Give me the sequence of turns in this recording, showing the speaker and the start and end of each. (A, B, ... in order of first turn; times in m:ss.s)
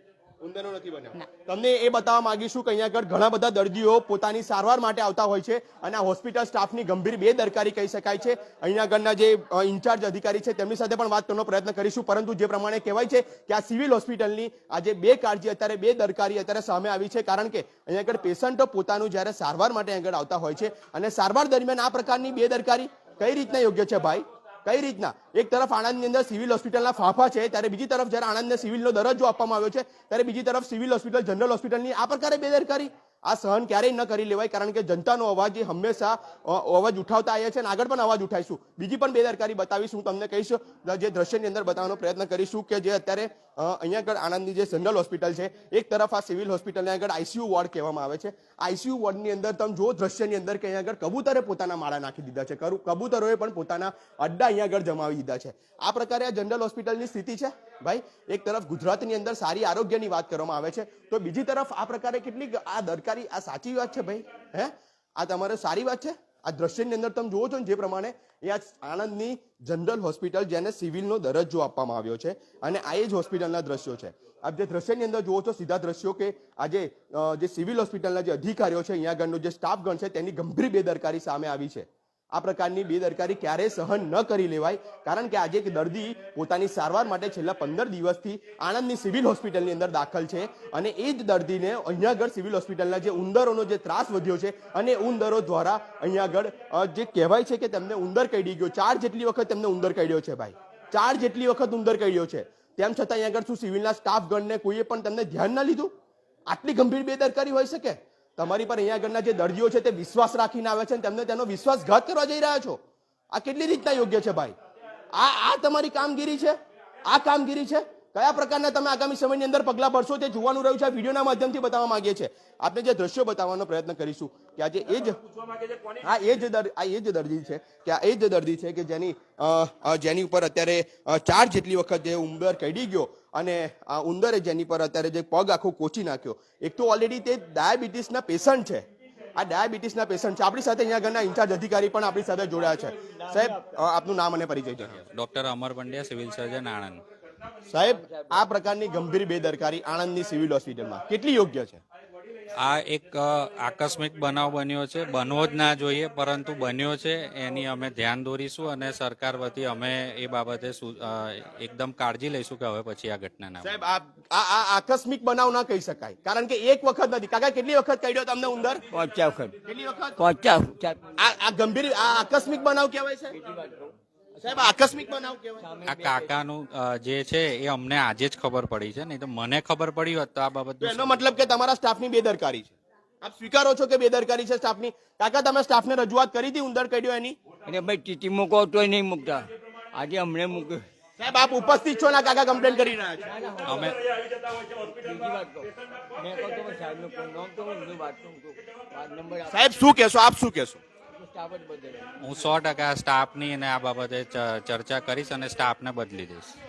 0:00.4-1:45.9 A
1:46.5-1:52.8 A
1:53.3-1:54.6 A
1:55.1-2:05.2 A
2:05.8-2:18.8 A
2:19.4-2:25.0 A
2:23.0-2:23.5 B
2:24.9-2:27.0 C
2:27.7-2:31.8 A
2:28.0-2:28.4 B
2:32.6-2:43.8 C
2:43.6-2:48.8 A
2:48.9-2:49.6 B
2:49.7-2:50.2 A
2:50.2-2:51.1 B
2:51.2-2:53.4 A
2:53.3-2:54.7 B
2:54.4-2:55.6 A
2:55.6-2:56.4 B
2:55.8-3:01.4 C
3:00.8-3:07.4 A
3:07.7-3:10.8 B
3:11.2-3:13.3 A
3:13.2-3:14.0 B
3:13.6-3:14.0 C
3:14.6-3:19.6 B
3:19.5-3:20.8 A
3:21.1-3:22.2 B
3:22.2-3:26.6 C